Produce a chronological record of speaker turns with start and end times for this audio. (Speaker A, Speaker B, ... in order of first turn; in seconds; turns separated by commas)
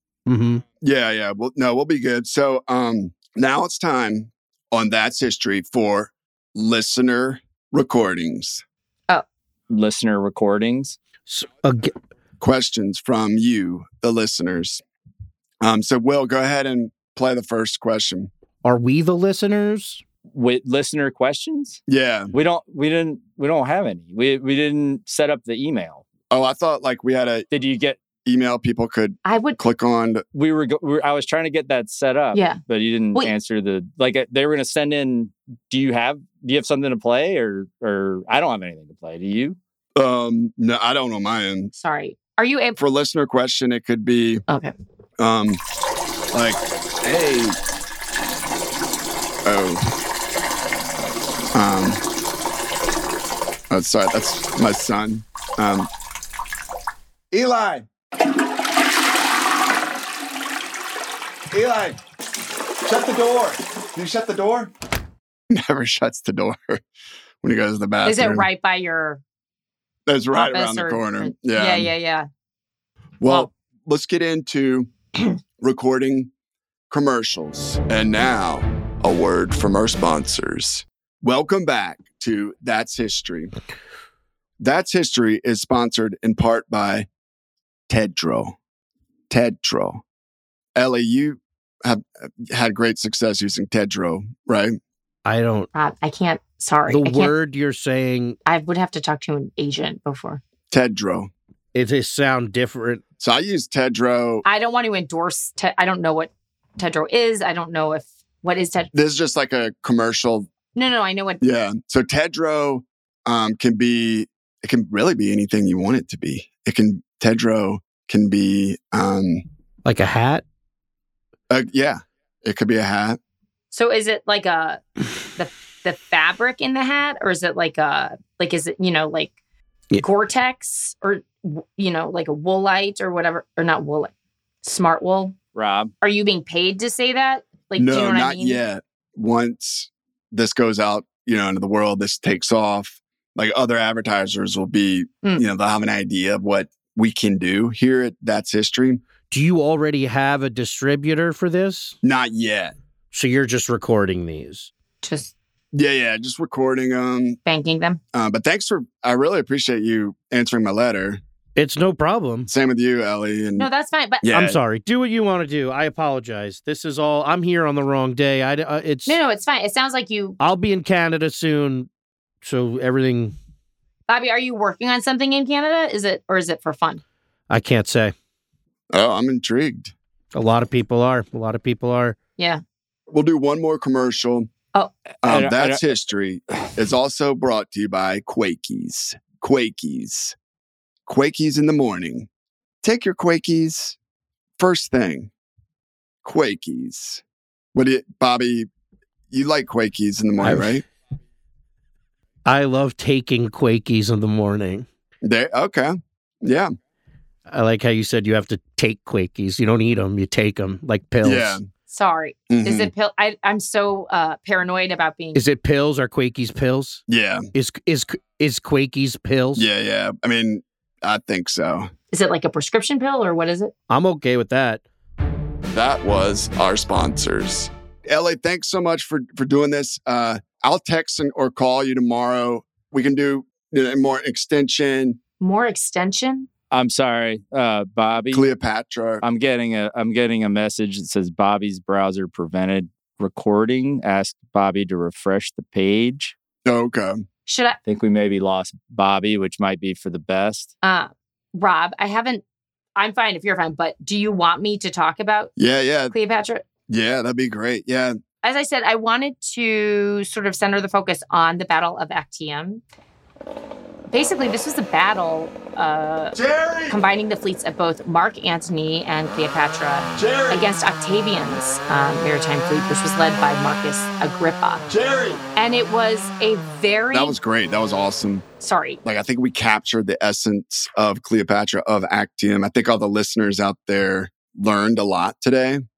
Speaker A: 0.3-0.6, Speaker B: 0.8-8.6, Speaker C: 9.7-11.0, Speaker A: 11.3-11.9, Speaker B: 12.4-14.8, Speaker B: 15.6-18.3, Speaker A: 18.6-20.0, Speaker C: 20.3-21.8, Speaker B: 21.9-22.3, Speaker C: 22.3-26.0, Speaker B: 26.3-27.4, Speaker C: 27.5-28.0, Speaker B: 28.2-30.2, Speaker D: 29.2-29.6, Speaker C: 30.3-39.6, Speaker D: 32.3-32.6, Speaker B: 40.0-41.7, Speaker D: 41.7-42.8, Speaker B: 42.8-44.4, Speaker B: 45.2-45.6, Speaker B: 46.3-47.6, Speaker B: 49.4-49.9, Speaker B: 51.5-52.0, Speaker B: 53.7-55.9, Speaker B: 57.3-57.9, Speaker B: 61.5-62.0, Speaker B: 62.8-64.7, Speaker B: 65.5-66.8, Speaker B: 67.4-68.5, Speaker D: 68.0-69.2, Speaker B: 70.1-71.9, Speaker D: 70.3-72.2, Speaker B: 73.2-74.9, Speaker D: 73.2-73.5, Speaker B: 75.6-76.3, Speaker B: 76.9-83.5, Speaker B: 84.6-87.1, Speaker B: 87.9-88.5, Speaker B: 89.3-90.0, Speaker B: 90.8-94.8, Speaker A: 95.2-95.7, Speaker D: 95.7-97.3, Speaker A: 96.9-98.4, Speaker D: 98.4-100.4, Speaker B: 100.7-101.3, Speaker A: 101.7-103.0, Speaker B: 103.2-104.4, Speaker D: 104.4-108.9, Speaker B: 108.9-110.5, Speaker D: 110.7-111.4, Speaker B: 111.4-119.4, Speaker A: 119.8-120.4, Speaker B: 121.5-123.2, Speaker D: 123.7-124.8, Speaker D: 125.3-129.3, Speaker D: 130.0-134.1, Speaker D: 134.6-135.3, Speaker C: 135.5-135.9, Speaker D: 136.0-138.6, Speaker B: 137.8-149.0, Speaker A: 149.3-152.0, Speaker B: 152.0-152.7, Speaker A: 153.1-154.7, Speaker D: 155.0-155.3, Speaker B: 155.7-157.4, Speaker D: 157.4-158.0, Speaker B: 158.1-161.2, Speaker A: 161.6-162.5, Speaker B: 162.5-163.7, Speaker D: 163.6-164.2, Speaker B: 164.2-164.6, Speaker A: 164.3-169.2, Speaker D: 169.1-170.4, Speaker A: 170.4-171.9, Speaker A: 172.4-173.3, Speaker D: 174.1-177.0, Speaker A: 177.5-178.1, Speaker B: 178.9-179.9, Speaker A: 180.3-182.2, Speaker B: 183.1-184.5, Speaker B: 185.2-190.3, Speaker C: 185.2-185.8, Speaker B: 191.1-192.3, Speaker B: 192.8-194.0, Speaker B: 194.6-195.3, Speaker B: 196.2-197.2, Speaker B: 197.7-198.7, Speaker B: 199.3-200.8, Speaker A: 200.4-200.8, Speaker A: 202.4-204.8, Speaker B: 205.2-206.7, Speaker A: 207.5-211.6, Speaker B: 211.2-211.6, Speaker D: 211.9-215.4, Speaker B: 212.5-212.9, Speaker A: 215.3-219.7, Speaker B: 217.1-217.4, Speaker B: 219.5-221.9, Speaker D: 222.1-223.7, Speaker A: 223.9-224.8, Speaker B: 225.7-235.2, Speaker D: 235.4-236.5, Speaker C: 236.7-238.5, Speaker B: 238.3-239.2, Speaker C: 239.2-246.3, Speaker B: 246.7-247.2, Speaker D: 247.4-247.8, Speaker C: 247.8-250.7, Speaker D: 250.8-252.4, Speaker D: 252.9-255.5, Speaker B: 255.6-256.1, Speaker D: 256.1-256.6, Speaker B: 256.9-258.2, Speaker D: 258.4-262.8, Speaker D: 264.1-266.4, Speaker B: 266.3-267.0, Speaker D: 266.9-274.8, Speaker B: 270.1-270.6, Speaker B: 274.9-275.4, Speaker D: 275.6-277.4, Speaker B: 277.1-278.4, Speaker D: 278.6-279.0, Speaker B: 279.0-285.8